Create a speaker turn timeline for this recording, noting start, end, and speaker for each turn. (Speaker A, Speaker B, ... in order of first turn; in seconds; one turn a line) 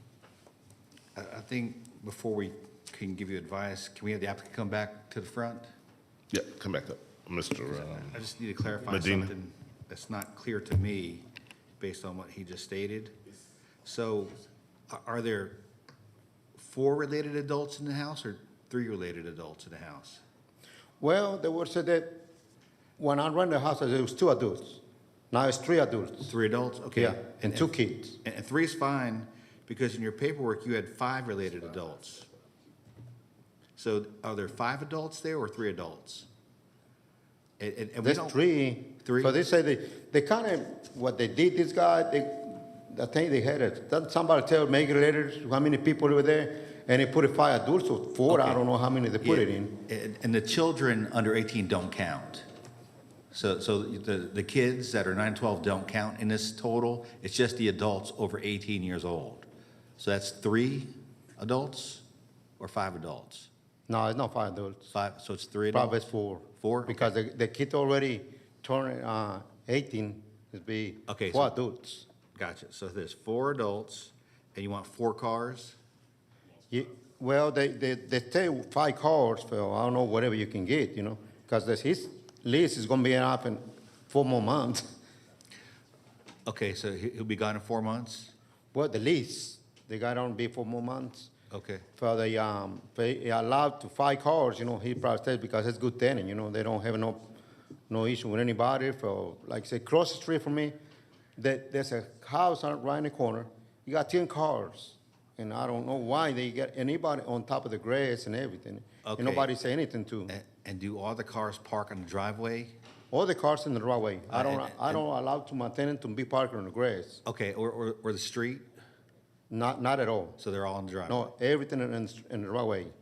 Speaker A: 1.1-5.7
Speaker B: 6.3-8.2
Speaker A: 7.7-11.3
Speaker B: 8.9-9.3
Speaker A: 11.8-13.2
Speaker A: 13.8-14.4
Speaker A: 14.9-15.6
Speaker A: 16.6-20.2
Speaker C: 21.0-22.2
Speaker C: 23.0-24.8
Speaker C: 25.3-26.3
Speaker A: 26.2-32.3
Speaker C: 26.9-28.2
Speaker A: 33.8-36.3
Speaker A: 37.6-38.4
Speaker C: 38.0-49.8
Speaker A: 39.0-39.3
Speaker A: 48.3-48.6
Speaker A: 49.2-52.5
Speaker A: 53.3-59.5
Speaker A: 60.0-62.0
Speaker A: 62.6-63.5
Speaker C: 63.9-64.9
Speaker A: 64.9-66.1
Speaker C: 65.7-72.1
Speaker A: 66.6-67.1
Speaker A: 71.1-71.5
Speaker A: 72.4-75.8
Speaker C: 76.7-84.9
Speaker A: 86.5-88.3
Speaker C: 88.7-91.3
Speaker A: 91.5-91.9
Speaker C: 92.0-97.2
Speaker C: 97.9-100.8
Speaker C: 101.4-110.3
Speaker A: 109.0-109.5
Speaker A: 110.3-112.8
Speaker C: 113.1-117.2
Speaker A: 114.3-115.0
Speaker A: 117.2-118.7
Speaker C: 119.5-120.4
Speaker A: 120.4-121.3
Speaker C: 121.1-122.9